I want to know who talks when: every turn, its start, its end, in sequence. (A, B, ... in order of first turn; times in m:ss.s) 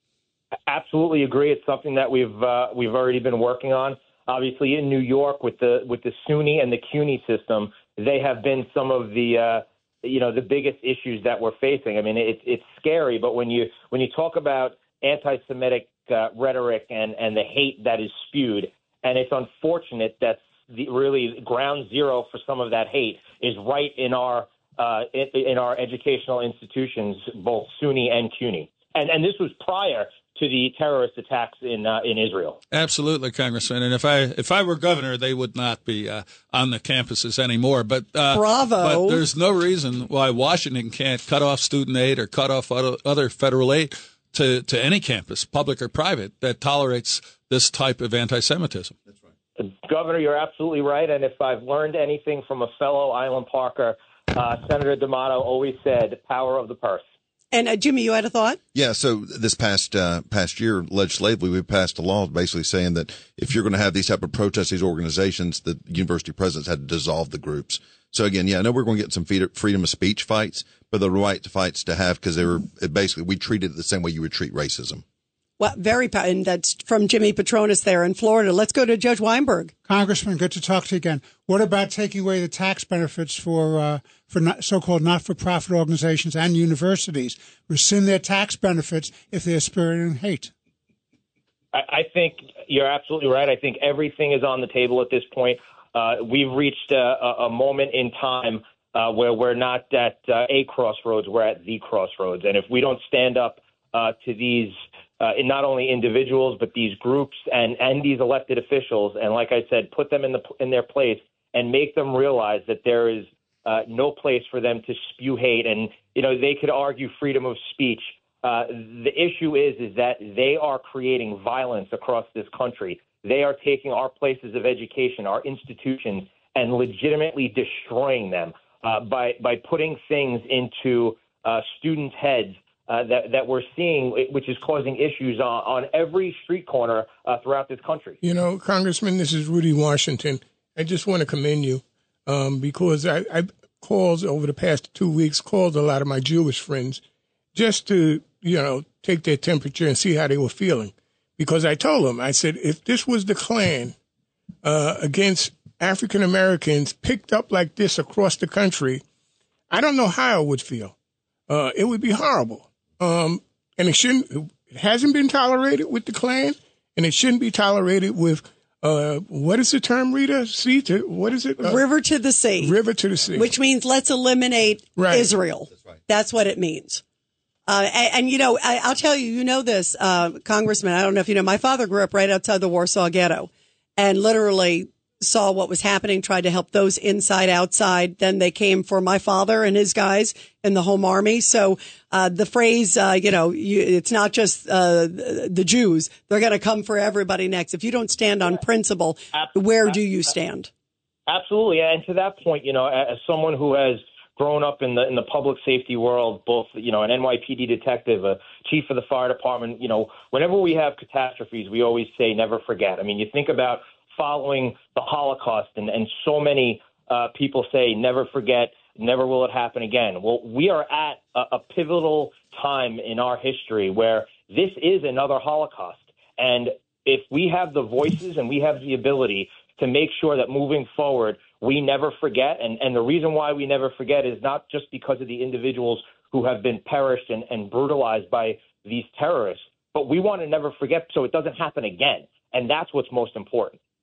0:00.7-0:32.6 A
0:32.7-0:48.9 B
0:38.3-0:39.2 C
0:49.6-0:57.0 A
0:57.5-0:58.6 C
0:58.7-1:15.0 D
1:15.6-1:19.7 C
1:19.9-1:30.5 E
1:31.7-2:18.2 A
2:18.2-2:27.0 F
2:27.6-2:34.0 F
2:34.6-2:39.0 F
2:39.7-2:40.9 F
2:41.5-2:51.8 F
2:51.6-2:52.8 C
2:52.6-2:53.5 F
2:53.4-2:57.0 C
2:55.0-2:55.3 F
2:57.7-3:20.7 C
3:21.3-4:03.8 A